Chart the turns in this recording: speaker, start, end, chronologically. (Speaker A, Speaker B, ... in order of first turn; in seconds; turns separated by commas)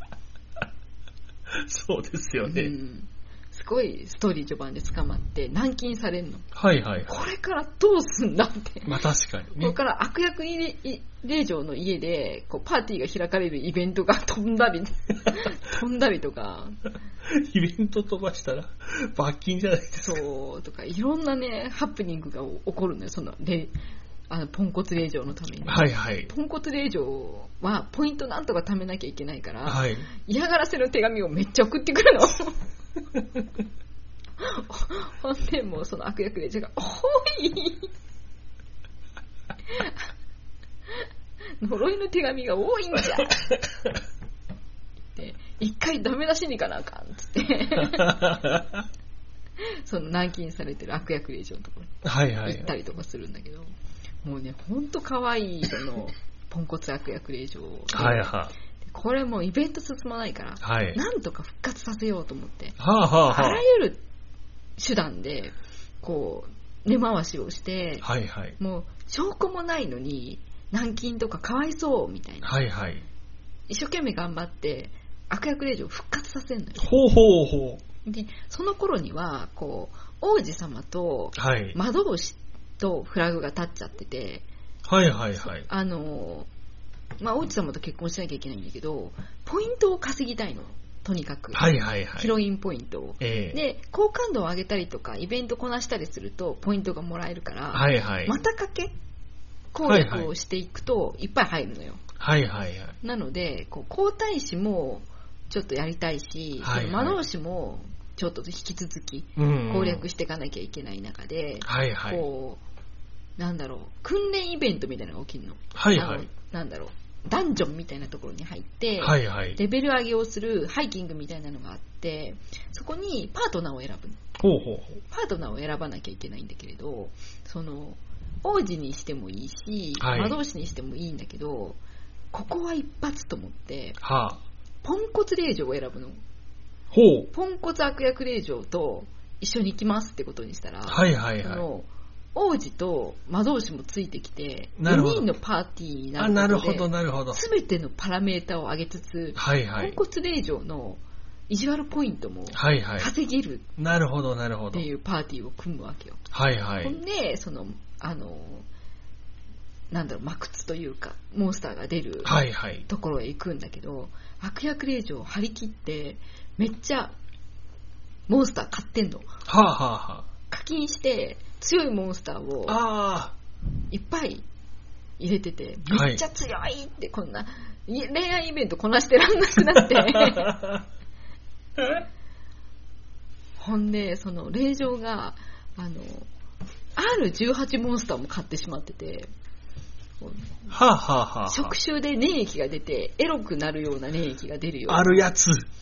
Speaker A: 1.5-2.7, Speaker B: 2.4-6.5, Speaker A: 6.5-7.2, Speaker B: 7.1-9.0, Speaker A: 8.8-9.7, Speaker B: 9.6-16.8, Speaker A: 17.2-20.2, Speaker B: 20.0-23.7, Speaker B: 24.3-32.6, Speaker A: 25.6-26.3, Speaker A: 29.6-30.1, Speaker B: 34.4-37.9, Speaker B: 39.7-40.1, Speaker B: 41.6-43.4, Speaker B: 45.1-48.3, Speaker A: 47.8-48.8, Speaker B: 49.6-53.7, Speaker A: 52.0-52.7, Speaker B: 54.2-62.8, Speaker A: 57.9-58.5, Speaker A: 60.6-61.0, Speaker A: 62.8-63.6, Speaker B: 63.3-64.0, Speaker B: 64.8-68.0, Speaker A: 68.0-68.5, Speaker B: 68.6-72.5, Speaker A: 72.4-73.0, Speaker B: 73.7-76.9, Speaker A: 76.8-77.8, Speaker B: 78.0-84.4, Speaker A: 81.3-81.8, Speaker A: 84.8-85.7, Speaker B: 85.4-86.5, Speaker B: 87.2-98.9, Speaker A: 91.5-92.3, Speaker A: 93.2-93.6, Speaker A: 97.7-98.4, Speaker B: 99.7-102.0, Speaker A: 99.8-100.3, Speaker A: 102.2-103.0, Speaker B: 103.0-112.6, Speaker A: 106.6-107.2, Speaker A: 109.3-110.0, Speaker A: 111.6-112.2, Speaker B: 113.4-124.3, Speaker A: 115.7-116.3, Speaker A: 119.0-119.6, Speaker A: 124.4-125.0, Speaker B: 125.1-131.8, Speaker A: 130.0-130.4, Speaker B: 132.3-134.0, Speaker A: 134.0-134.4, Speaker B: 134.8-136.2, Speaker A: 136.9-137.3, Speaker B: 137.3-153.7, Speaker A: 140.9-141.6, Speaker A: 144.8-145.3, Speaker A: 146.2-147.4, Speaker A: 149.3-150.0, Speaker A: 152.5-153.1, Speaker A: 153.8-154.9, Speaker B: 154.7-156.2, Speaker A: 156.3-157.0, Speaker B: 156.8-158.7, Speaker B: 159.9-167.1, Speaker A: 162.2-162.8, Speaker B: 168.3-169.3, Speaker A: 169.4-170.3, Speaker B: 170.5-172.8, Speaker A: 172.7-173.3, Speaker B: 173.9-174.4, Speaker B: 175.2-180.6, Speaker A: 175.9-176.2, Speaker A: 180.0-180.8, Speaker B: 183.6-186.3, Speaker B: 186.9-189.3, Speaker B: 190.2-190.7, Speaker A: 190.7-191.7, Speaker B: 191.5-195.3, Speaker A: 194.9-195.7